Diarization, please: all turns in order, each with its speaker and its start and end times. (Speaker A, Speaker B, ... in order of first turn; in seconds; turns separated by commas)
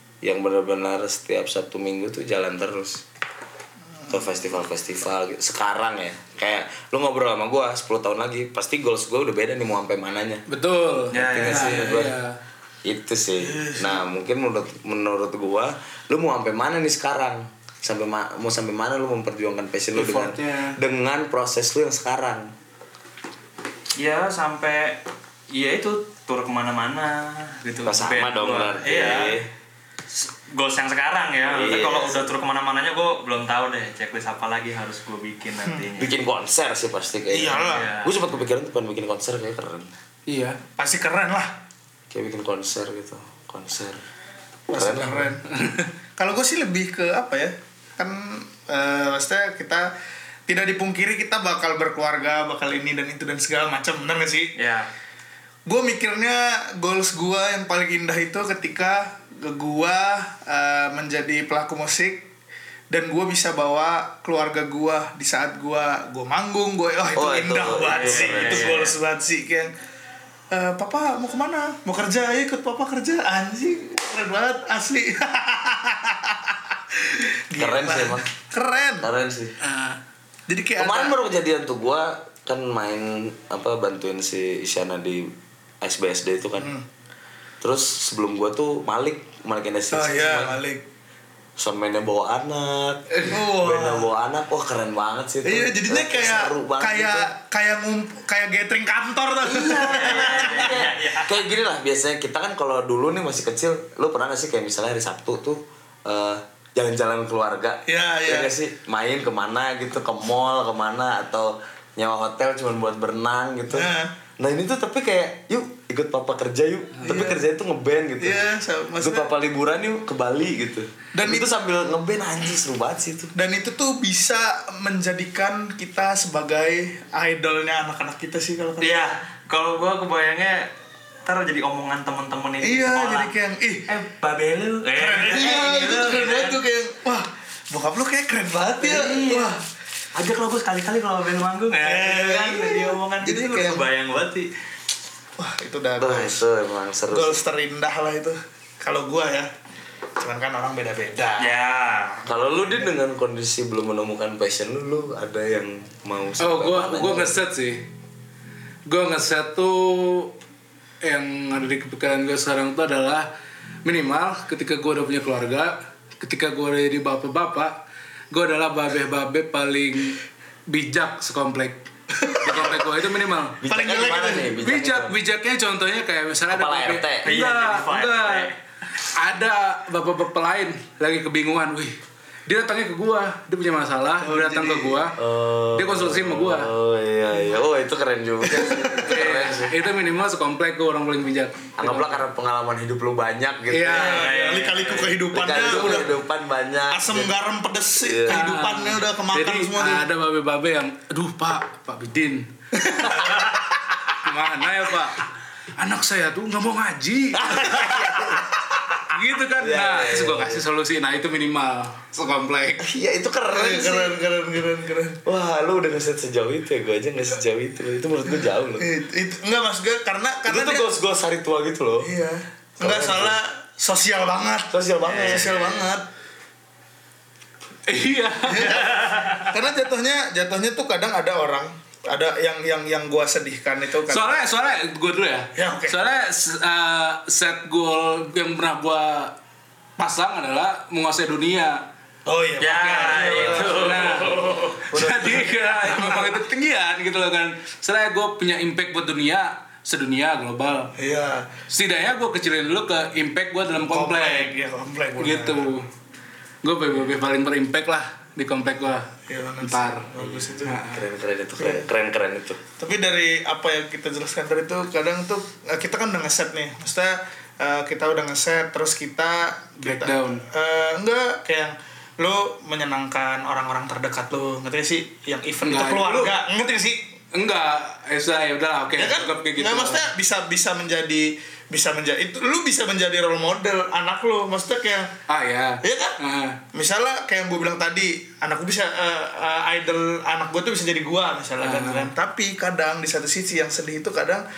Speaker A: 0.2-3.0, Speaker A: 4.1-10.4, Speaker B: 10.5-12.4, Speaker C: 11.1-11.9, Speaker A: 11.2-12.2, Speaker A: 12.8-22.5, Speaker D: 13.4-14.0, Speaker B: 19.9-20.8, Speaker C: 24.0-29.4, Speaker A: 27.8-29.5, Speaker C: 30.1-36.1, Speaker A: 31.5-32.2, Speaker A: 36.0-39.9, Speaker D: 37.3-37.9, Speaker C: 37.6-38.1, Speaker B: 40.3-40.6, Speaker D: 40.8-41.5, Speaker A: 42.1-44.0, Speaker D: 44.7-45.6, Speaker A: 44.7-45.4, Speaker D: 46.2-49.9, Speaker D: 50.5-54.5, Speaker C: 54.6-54.9, Speaker D: 55.7-62.3, Speaker D: 62.9-69.7, Speaker A: 67.1-68.8, Speaker C: 67.9-69.0, Speaker D: 70.5-79.1, Speaker A: 77.6-78.3, Speaker A: 79.0-79.5, Speaker B: 79.6-80.0, Speaker D: 80.5-81.2, Speaker A: 80.8-86.7, Speaker D: 86.6-86.8, Speaker A: 87.6-90.6, Speaker D: 89.9-90.8, Speaker A: 91.6-97.3, Speaker D: 93.3-94.1, Speaker D: 95.4-100.9, Speaker A: 99.4-118.5, Speaker C: 99.6-101.4, Speaker D: 107.9-108.5, Speaker D: 113.7-114.1, Speaker D: 117.0-117.4, Speaker D: 118.2-119.3, Speaker A: 119.0-123.3, Speaker D: 121.2-121.5, Speaker D: 123.4-129.1, Speaker C: 128.8-130.7, Speaker C: 131.3-133.3, Speaker D: 132.6-133.9, Speaker C: 133.9-136.6, Speaker D: 134.9-139.6, Speaker C: 138.8-139.6, Speaker C: 140.2-144.5, Speaker D: 141.8-143.8, Speaker D: 145.4-146.4, Speaker A: 146.0-147.4, Speaker D: 147.1-149.5, Speaker D: 150.2-152.9, Speaker C: 151.4-152.1, Speaker A: 152.3-157.4, Speaker B: 156.4-157.8, Speaker B: 158.9-160.3, Speaker B: 161.0-163.3, Speaker B: 163.8-167.8, Speaker B: 168.3-173.6, Speaker D: 172.3-172.7, Speaker A: 172.5-172.8, Speaker A: 173.6-175.2, Speaker D: 173.7-174.5, Speaker B: 174.6-178.5, Speaker A: 176.5-177.3, Speaker C: 177.2-178.5, Speaker B: 179.1-181.9, Speaker B: 182.5-185.2, Speaker D: 184.2-185.0, Speaker A: 185.2-189.8, Speaker B: 185.8-186.7, Speaker D: 188.5-189.2, Speaker B: 189.0-192.2, Speaker A: 191.8-194.1, Speaker B: 193.7-194.3, Speaker D: 193.9-196.1, Speaker C: 193.9-195.2, Speaker A: 195.3-197.3, Speaker D: 196.9-200.1, Speaker A: 198.0-198.5, Speaker B: 198.3-203.2, Speaker D: 202.8-203.8, Speaker B: 204.1-208.0, Speaker A: 207.3-208.6, Speaker B: 209.1-212.9, Speaker A: 209.6-210.6, Speaker A: 212.8-214.2, Speaker D: 213.5-215.2, Speaker A: 215.2-218.9, Speaker D: 218.8-220.9, Speaker A: 220.5-222.1, Speaker D: 222.0-226.1, Speaker A: 222.8-223.4, Speaker A: 224.7-225.7, Speaker C: 225.2-225.8, Speaker B: 227.9-228.8, Speaker D: 228.5-234.3, Speaker C: 228.8-229.5, Speaker B: 234.1-239.3, Speaker D: 235.6-236.0, Speaker B: 240.0-241.9, Speaker D: 242.3-246.4, Speaker C: 242.6-244.7, Speaker B: 243.7-244.3, Speaker B: 244.9-250.9, Speaker D: 251.0-251.5, Speaker B: 251.7-254.5, Speaker D: 253.9-255.8, Speaker B: 255.2-255.9, Speaker B: 256.6-260.1, Speaker D: 259.3-260.8, Speaker A: 260.2-262.6, Speaker B: 260.6-261.1, Speaker D: 261.6-261.9, Speaker D: 262.8-277.0, Speaker B: 269.8-270.4, Speaker B: 275.6-276.3, Speaker B: 277.3-280.1, Speaker D: 279.0-285.1, Speaker B: 285.3-286.6, Speaker D: 285.8-286.2, Speaker D: 286.7-294.4, Speaker B: 291.6-292.1